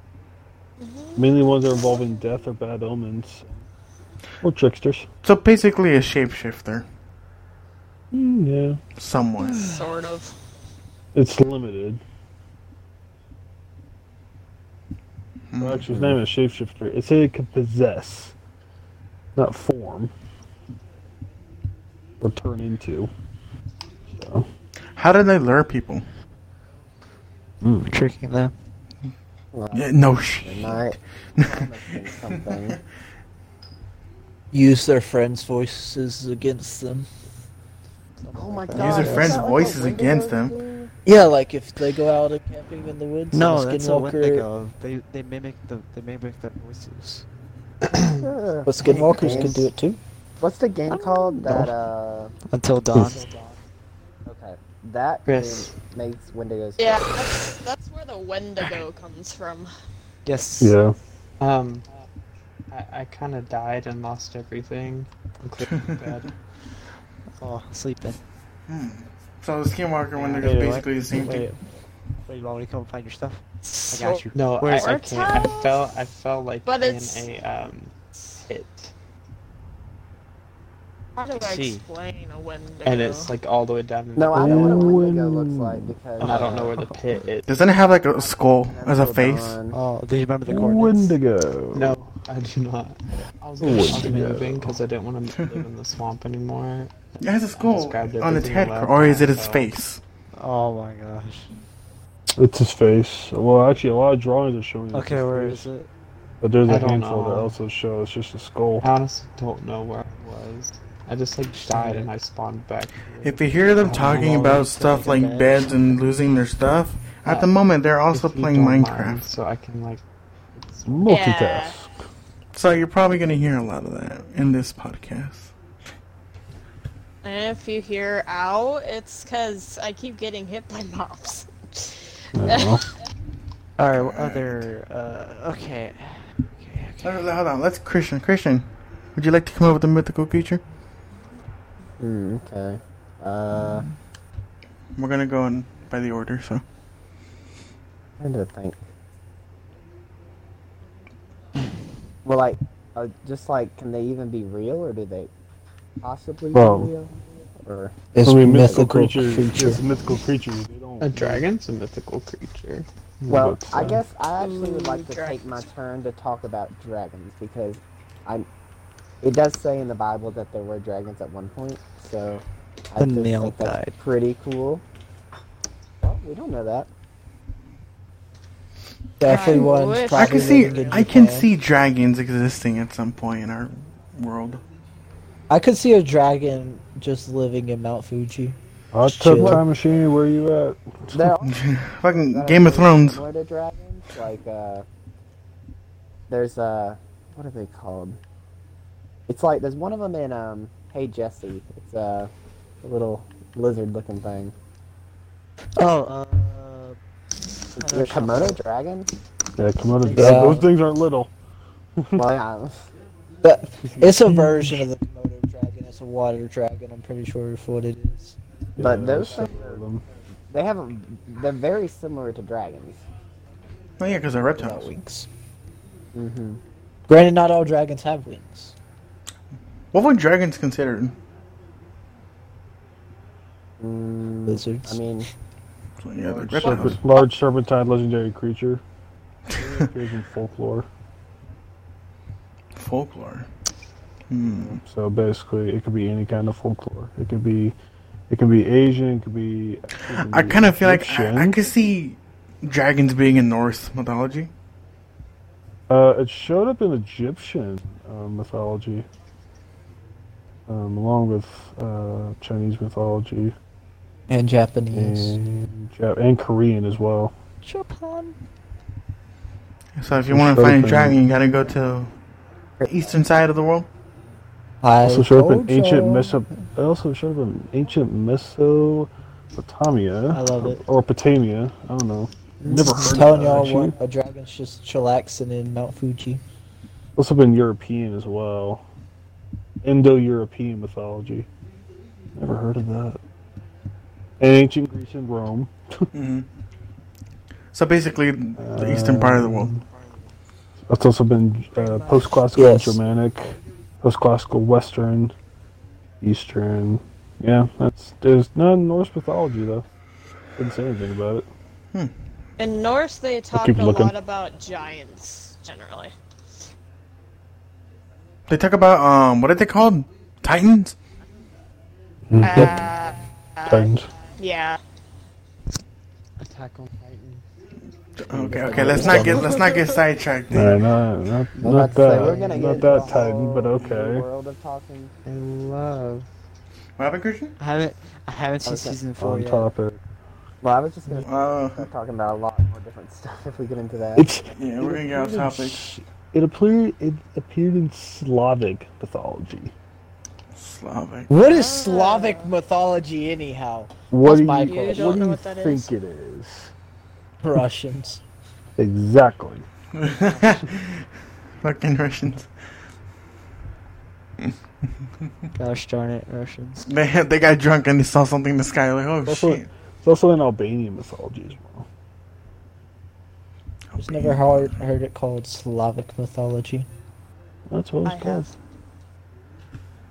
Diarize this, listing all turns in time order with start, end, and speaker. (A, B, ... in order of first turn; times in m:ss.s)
0:00.8-0:02.0 A
0:01.2-0:03.6 B
0:04.4-0:05.1 B
0:05.2-0:06.9 C
0:08.1-0:08.8 B
0:09.0-0:09.6 C
0:09.6-0:10.3 A
0:11.1-0:12.0 B
0:15.5-0:16.1 C
0:15.6-0:18.3 B
0:19.4-0:20.1 B
0:22.2-0:23.1 B
0:24.1-0:24.5 B
0:25.0-0:26.0 C
0:27.6-0:27.9 B
0:27.8-0:28.5 D
0:29.5-0:32.8 E
0:29.7-0:32.8 C
0:34.5-0:37.1 F
0:38.2-0:39.5 D
0:38.3-0:40.9 E
0:38.7-0:40.6 C
0:41.0-0:44.4 F
0:43.3-0:47.2 D
0:47.9-0:49.7 E
0:48.6-0:50.0 F
0:48.8-0:49.6 D
0:50.4-0:52.3 E
0:50.9-0:51.7 D
0:52.5-0:53.5 D
0:54.2-0:57.1 E
0:55.3-0:55.7 G
0:56.8-0:59.7 A
1:00.2-1:00.8 D
1:00.6-1:01.0 B
1:01.4-1:01.8 G
1:02.7-1:06.3 G
1:07.4-1:08.2 D
1:08.7-1:11.5 C
1:10.2-1:10.6 G
1:10.4-1:11.6 D
1:12.2-1:15.0 D
1:13.6-1:15.8 A
1:14.3-1:18.9 G
1:16.6-1:17.3 A
1:21.2-1:23.3 A
1:21.4-1:21.8 D
1:22.8-1:25.0 G
1:24.2-1:26.8 E
1:24.3-1:25.9 B
1:26.2-1:27.5 G
1:26.2-1:26.7 D
1:27.5-1:29.6 C
1:28.6-1:29.8 E
1:29.7-1:31.2 D
1:30.5-1:32.0 B
1:31.7-1:39.7 G
1:33.6-1:34.8 B
1:37.2-1:40.0 C
1:40.3-1:41.5 D
1:42.4-1:45.7 B
1:44.9-1:45.9 D
1:46.4-1:48.9 B
1:46.7-1:47.6 G
1:48.8-1:54.7 G
1:51.6-1:52.1 D
1:53.2-1:59.2 C
1:53.8-1:55.8 D
1:57.2-1:57.5 G
1:58.1-2:00.0 G
2:00.5-2:01.1 G
2:00.9-2:01.9 B
2:01.0-2:01.8 A
2:02.5-2:05.5 C
2:07.2-2:12.9 A
2:12.3-2:12.8 B
2:13.8-2:17.2 D
2:13.9-2:14.6 C
2:17.0-2:20.6 C
2:22.0-2:23.9 E
2:24.9-2:26.6 C
2:28.2-2:28.8 E
2:32.2-2:35.3 E
2:36.0-2:37.1 E
2:36.5-2:36.9 B
2:37.6-2:38.0 E
2:38.1-2:39.8 F
2:38.2-2:41.4 B
2:41.0-2:42.9 G
2:43.2-2:44.0 B
2:43.3-2:48.5 E
2:44.4-2:45.6 A
2:49.2-2:54.8 E
2:53.0-2:53.9 D
2:56.0-2:56.9 E
2:59.2-3:01.5 F
2:59.2-3:01.3 A
2:59.3-3:04.6 C
3:05.5-3:09.6 F
3:08.9-3:11.3 B
3:09.4-3:09.6 E
3:11.1-3:11.6 E
3:11.4-3:13.2 C
3:12.3-3:14.8 E
3:16.3-3:18.2 E
3:19.3-3:22.3 E
3:22.8-3:24.5 E
3:25.8-3:27.0 D
3:27.8-3:28.6 D
3:27.8-3:29.1 E
3:29.6-3:31.3 B
3:30.0-3:30.6 D
3:30.1-3:30.6 F
3:32.0-3:32.2 B
3:32.1-3:32.8 E
3:33.4-3:38.4 F
3:33.8-3:34.8 B
3:38.8-3:40.0 B
3:38.8-3:39.8 E
3:40.5-3:43.0 E
3:44.0-3:44.9 C
3:44.6-3:45.3 F
3:46.1-3:46.6 E
3:47.1-3:48.7 F
3:49.9-3:51.1 C
3:53.8-3:55.3 E
3:54.5-3:55.0 F
3:56.0-3:57.0 C
3:56.3-3:58.8 B
3:59.5-3:59.9 C
3:59.5-4:00.9 B
4:02.7-4:03.5 C
4:04.3-4:04.8 C
4:04.8-4:07.7 B
4:08.3-4:11.6 B
4:10.1-4:14.5 C
4:15.9-4:19.1 B
4:20.7-4:23.5 B
4:24.3-4:25.4 F
4:24.9-4:27.3 B
4:27.6-4:28.3 D
4:30.0-4:32.1 C
4:30.3-4:31.2 B
4:32.8-4:33.1 E
4:32.8-4:33.9 C
4:34.8-4:36.4 F
4:35.0-4:44.0 B
4:40.3-4:40.8 D
4:43.0-4:46.4 F
4:47.2-4:48.8 B
4:49.8-4:51.5 B
4:52.3-4:53.2 B
4:54.4-4:56.1 B
4:56.1-4:56.5 C
4:57.7-4:59.7 C
4:58.6-4:59.8 B
5:00.9-5:05.3 B
5:02.5-5:03.0 F
5:06.2-5:09.8 B
5:10.6-5:11.5 B
5:12.6-5:16.1 A
5:13.5-5:14.1 B
5:18.5-5:21.0 C
5:22.3-5:22.9 B
5:22.4-5:24.8 A
5:23.6-5:24.1 B
5:26.4-5:27.4 G
5:26.5-5:27.2 D
5:28.2-5:30.8 C
5:28.3-5:29.5 E
5:28.7-5:29.6 B
5:29.3-5:29.9 A
5:30.5-5:34.3 B
5:31.6-5:35.1 E
5:32.6-5:33.0 F
5:35.3-5:36.2 G
5:37.0-5:37.5 C
5:37.6-5:39.7 D
5:38.6-5:39.0 E
5:39.2-5:40.0 B
5:40.6-5:44.3 E
5:41.2-5:41.8 C
5:44.2-5:49.7 B
5:44.5-5:46.0 C
5:50.5-5:51.3 C
5:51.3-5:55.2 F
5:51.4-5:52.5 A
5:54.1-5:56.7 B
5:54.5-5:55.9 A
5:57.4-5:58.2 F
5:58.8-5:59.6 B
5:59.9-6:01.0 C
6:01.6-6:02.5 C
6:05.6-6:06.9 D
6:06.8-6:09.6 C
6:09.2-6:11.8 B
6:13.9-6:14.8 C
6:14.0-6:16.9 F
6:17.7-6:18.5 B
6:18.0-6:18.5 A